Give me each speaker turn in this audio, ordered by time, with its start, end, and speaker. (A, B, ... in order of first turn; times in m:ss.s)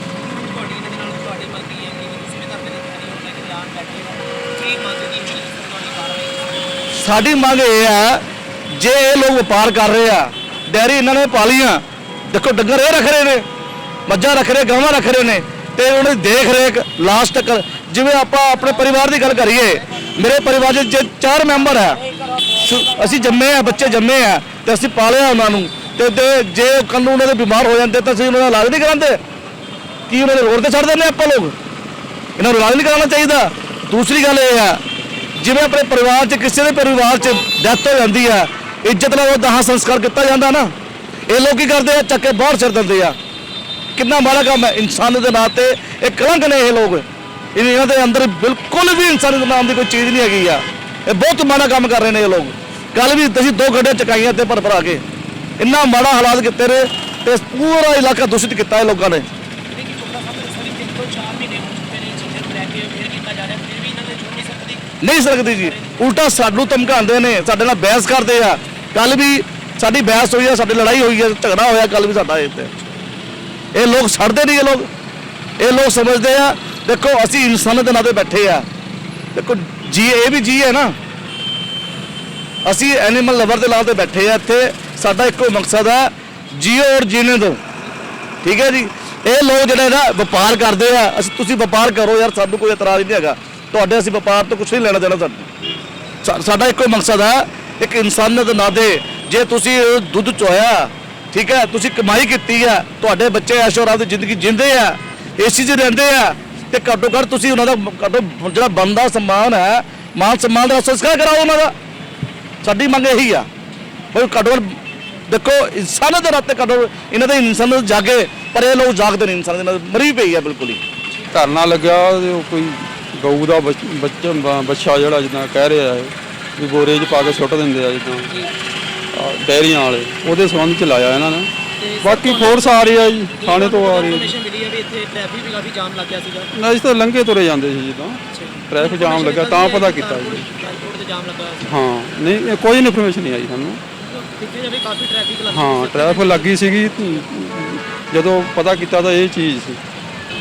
0:00.3-0:06.7 A
0:07.0-0:08.2 B
0:08.8-0:13.5 B
0:14.1-0:22.0 B
0:22.6-0:29.2 B
0:30.1-0:31.5 B
0:32.4-0:34.8 B
0:35.4-0:40.7 B
0:41.3-0:43.2 B
0:44.0-0:55.0 B
0:55.6-0:59.3 B
0:59.7-1:04.8 A
1:05.0-1:12.7 B
1:05.4-1:06.1 A
1:13.8-1:14.9 B
1:15.6-1:18.7 B
1:19.4-1:21.0 B
1:22.6-1:27.6 B
1:28.4-1:35.5 B
1:36.2-1:51.7 B
1:52.6-1:53.5 B
1:54.1-2:00.8 B
2:01.3-2:08.3 C
2:09.1-2:11.5 C
2:11.8-2:16.5 A
2:12.0-2:14.3 C
2:16.6-2:20.5 C
2:18.3-2:21.7 A
2:21.6-2:23.8 C
2:24.0-2:27.2 A
2:25.5-2:29.8 C